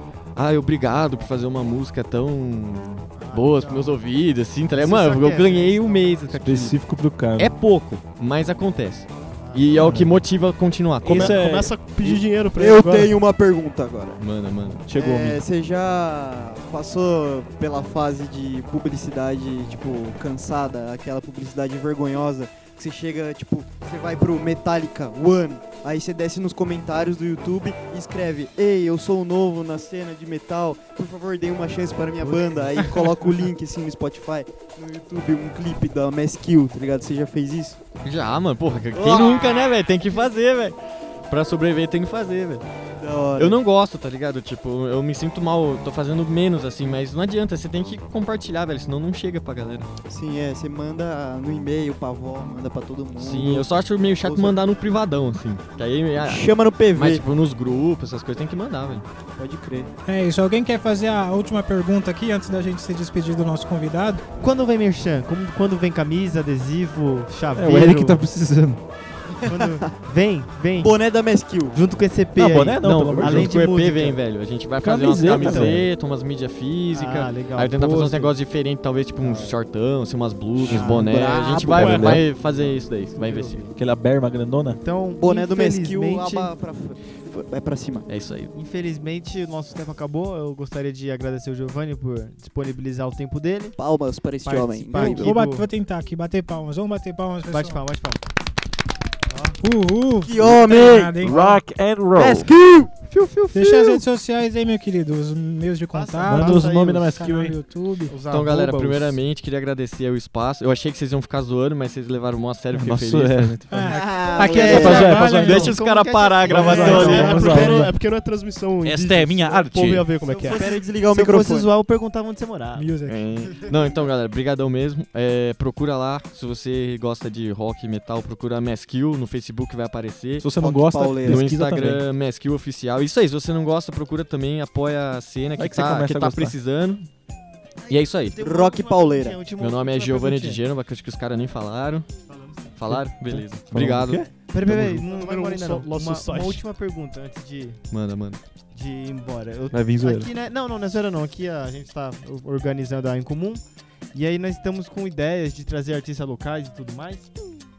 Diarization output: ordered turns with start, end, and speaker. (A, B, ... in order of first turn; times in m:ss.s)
0:00.4-0:06.8 A
0:03.2-0:04.0 B
0:04.7-0:06.4 B
0:06.4-0:07.5 C
0:07.4-0:11.4 A
0:09.4-0:10.0 B
0:09.8-0:10.2 C
0:11.0-0:12.2 C
0:11.1-0:13.2 D
0:12.6-0:14.3 E
0:14.2-0:14.8 A
0:14.9-0:15.4 C
0:14.9-0:37.8 E
0:32.2-0:33.2 B
0:38.0-0:42.6 A
0:39.0-0:39.8 E
0:43.0-0:43.6 E
0:43.4-0:49.9 A
0:50.1-0:53.7 E
0:53.2-0:59.0 A
0:54.2-0:54.6 E
0:56.2-0:57.2 E
0:59.4-0:59.9 E
1:00.1-1:04.2 F
1:04.4-1:08.2 B
1:07.6-1:08.8 C
1:09.4-1:11.1 B
1:10.8-1:11.8 E
1:11.7-1:14.2 B
1:12.4-1:13.5 C
1:12.8-1:23.6 A
1:14.8-1:15.9 C
1:15.2-1:15.9 B
1:16.9-1:18.4 B
1:19.2-1:19.6 B
1:20.6-1:22.2 E
1:20.7-1:21.1 B
1:21.7-1:22.2 C
1:22.3-1:23.7 B
1:23.8-1:24.8 C
1:24.8-1:26.5 B
1:25.2-1:28.1 E
1:28.1-1:28.5 A
1:28.5-1:33.8 B
1:33.8-1:35.3 E
1:34.4-1:35.7 B
1:35.0-1:37.8 F
1:37.5-1:38.2 B
1:39.3-1:39.6 B
1:39.6-1:41.6 F
1:40.2-1:41.4 E
1:40.4-1:42.5 C
1:42.2-1:43.0 E
1:43.0-1:44.0 B
1:43.5-1:48.2 F
1:45.9-1:47.2 B
1:46.3-1:47.6 C
1:48.1-1:49.2 B
1:48.3-1:53.6 A
1:52.7-1:55.8 C
1:53.7-1:55.7 F
1:53.9-1:55.0 E
1:54.2-1:57.9 B
1:54.7-1:57.7 A
1:56.4-1:57.9 C
1:56.8-1:57.1 F
1:56.8-2:00.6 D
1:58.8-2:00.1 C
2:00.3-2:02.9 B
2:00.4-2:01.7 E
2:02.8-2:03.2 F
2:03.1-2:10.5 A
2:10.4-2:12.0 C
2:10.6-2:11.5 E
2:11.2-2:17.1 A
2:15.6-2:16.5 C
2:17.9-2:20.6 B
2:17.9-2:18.4 A
2:18.4-2:19.4 E
2:19.6-2:22.1 A
2:22.3-2:23.1 B
2:22.8-2:24.2 A
2:23.3-2:25.0 C
2:24.5-2:27.8 B
2:25.0-2:26.6 D
2:27.9-2:28.4 A
2:28.7-2:33.6 B
2:29.7-2:30.3 C
2:34.1-2:37.3 B